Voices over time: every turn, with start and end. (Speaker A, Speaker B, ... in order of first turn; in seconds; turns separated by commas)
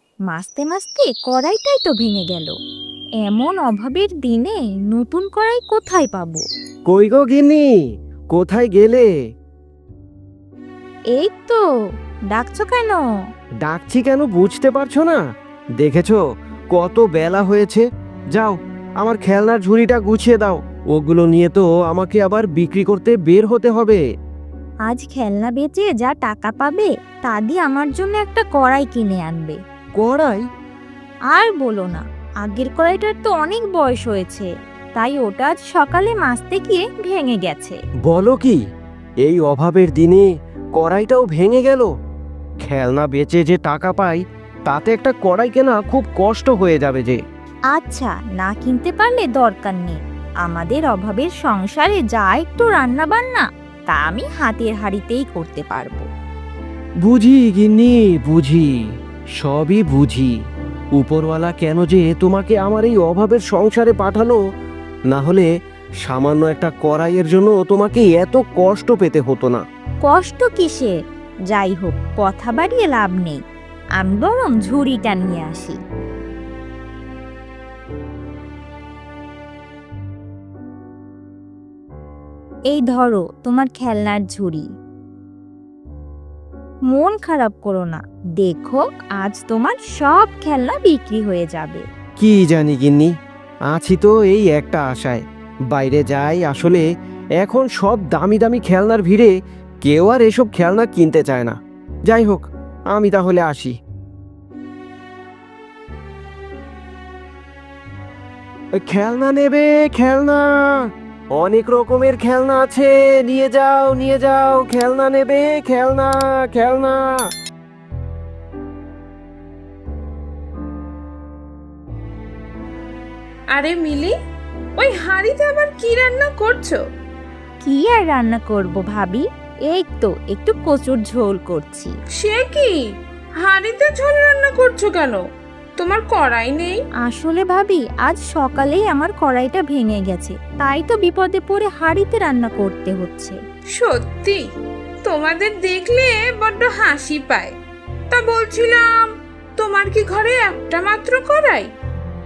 Speaker A: 0.3-2.5, Speaker A: 3.2-6.4, Speaker B: 6.9-7.7, Speaker B: 8.3-9.1, Speaker A: 11.1-11.6, Speaker A: 12.3-13.0, Speaker B: 13.6-15.2, Speaker B: 15.8-16.2, Speaker B: 16.7-24.0, Speaker A: 24.9-29.6, Speaker B: 30.0-30.4, Speaker A: 31.3-37.8, Speaker B: 38.1-38.6, Speaker B: 39.2-41.9, Speaker B: 42.6-47.2, Speaker A: 47.7-56.0, Speaker B: 57.0-58.7, Speaker B: 59.4-60.3, Speaker B: 61.0-64.4, Speaker B: 65.1-65.5, Speaker B: 66.0-69.6, Speaker A: 70.0-70.9, Speaker A: 71.5-73.4, Speaker A: 74.0-75.8, Speaker A: 82.7-84.7, Speaker A: 86.9-91.8, Speaker B: 92.2-93.1, Speaker B: 93.7-96.8, Speaker B: 97.4-99.3, Speaker B: 99.8-101.5, Speaker B: 102.1-103.8, Speaker B: 108.8-117.2, Speaker C: 123.5-124.1, Speaker C: 124.8-126.8, Speaker A: 127.6-131.9, Speaker C: 132.2-132.8, Speaker C: 133.4-135.2, Speaker C: 135.8-136.8, Speaker A: 137.0-143.3, Speaker C: 143.8-144.4, Speaker C: 145.1-147.5, Speaker C: 148.1-151.7